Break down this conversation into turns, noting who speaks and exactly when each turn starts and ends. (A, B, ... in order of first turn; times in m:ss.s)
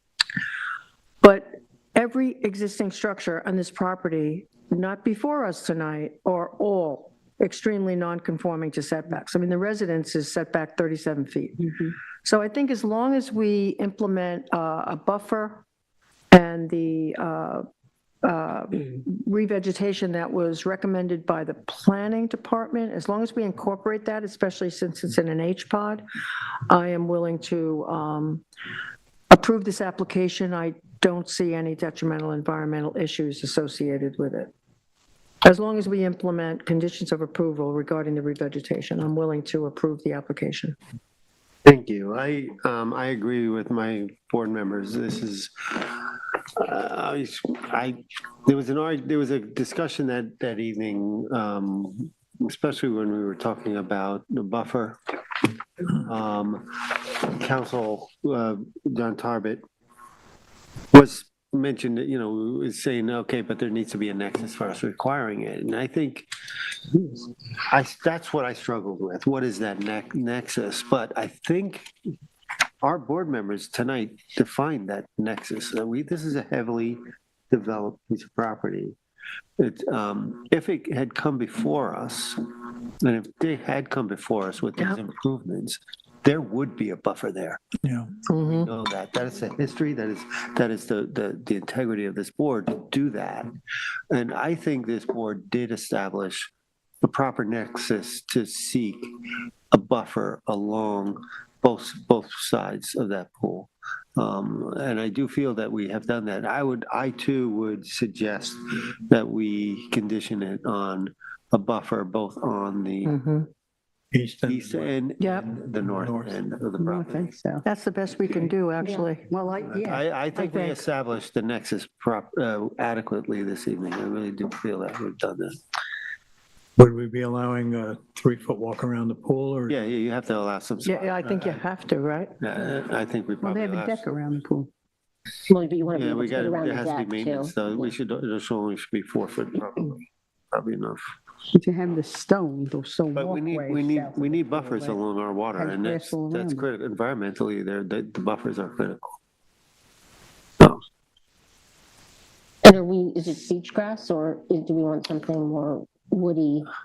0:01.2-0:11.7 A
0:12.2-0:15.6 A
0:16.3-0:17.6 A
0:18.2-0:26.0 A
0:26.7-0:28.4 A
0:29.3-0:34.5 A
0:35.4-0:40.8 A
0:41.6-0:55.0 B
0:55.8-0:59.6 B
1:00.9-1:06.3 B
1:06.9-1:11.9 B
1:12.8-1:19.0 B
1:19.6-1:22.4 B
1:23.0-1:27.6 B
1:27.8-1:28.1 C
1:28.3-1:28.7 A
1:28.4-1:33.5 B
1:34.1-1:36.5 B
1:37.0-1:39.0 B
1:39.7-1:53.1 B
1:53.0-1:53.5 A
1:54.1-1:56.4 C
1:54.4-1:57.3 B
1:55.2-1:55.5 A
1:56.8-1:57.6 D
1:57.6-1:59.2 A
1:59.3-2:00.0 D
1:59.6-2:05.6 B
2:00.3-2:00.8 A
2:06.8-2:09.8 C
2:09.7-2:11.6 B
2:10.8-2:12.4 A
2:12.4-2:14.0 B
2:13.4-2:14.7 D
2:15.5-2:17.9 E
2:15.9-2:21.0 B
2:21.5-2:25.0 D
2:23.1-2:29.1 B
2:25.6-2:26.6 D
2:32.6-2:36.7 E